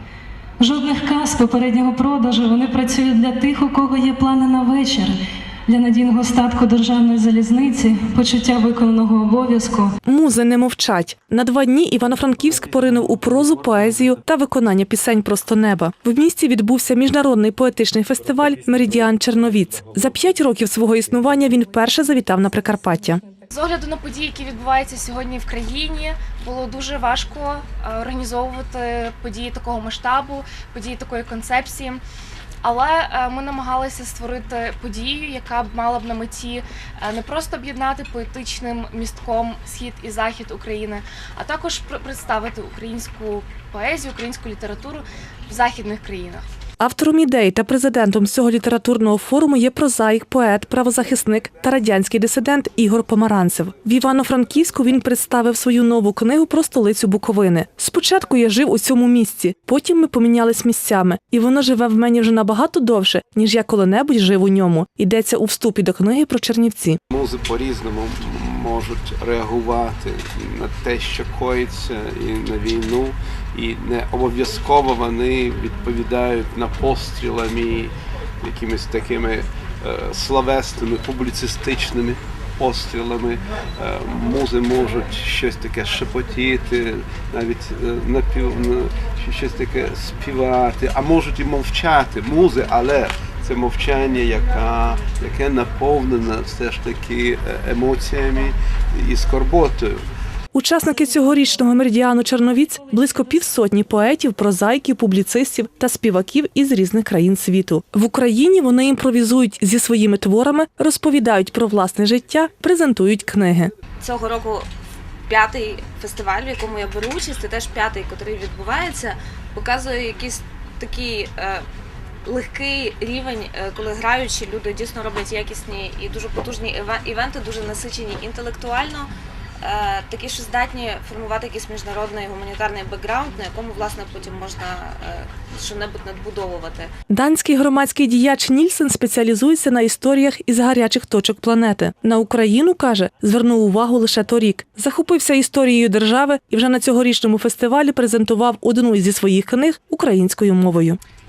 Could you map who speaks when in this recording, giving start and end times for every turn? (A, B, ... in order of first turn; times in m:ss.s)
0:00.6-0:05.1 A
0:05.7-0:09.9 A
0:10.0-0:23.2 B
0:23.5-0:32.0 C
0:32.6-0:46.4 C
0:46.8-1:07.0 B
1:07.1-1:40.0 D
1:40.5-1:53.7 B
1:54.0-1:54.7 E
1:55.3-2:01.6 E
2:02.2-2:09.1 E
2:09.6-2:16.9 E
2:17.1-2:31.0 B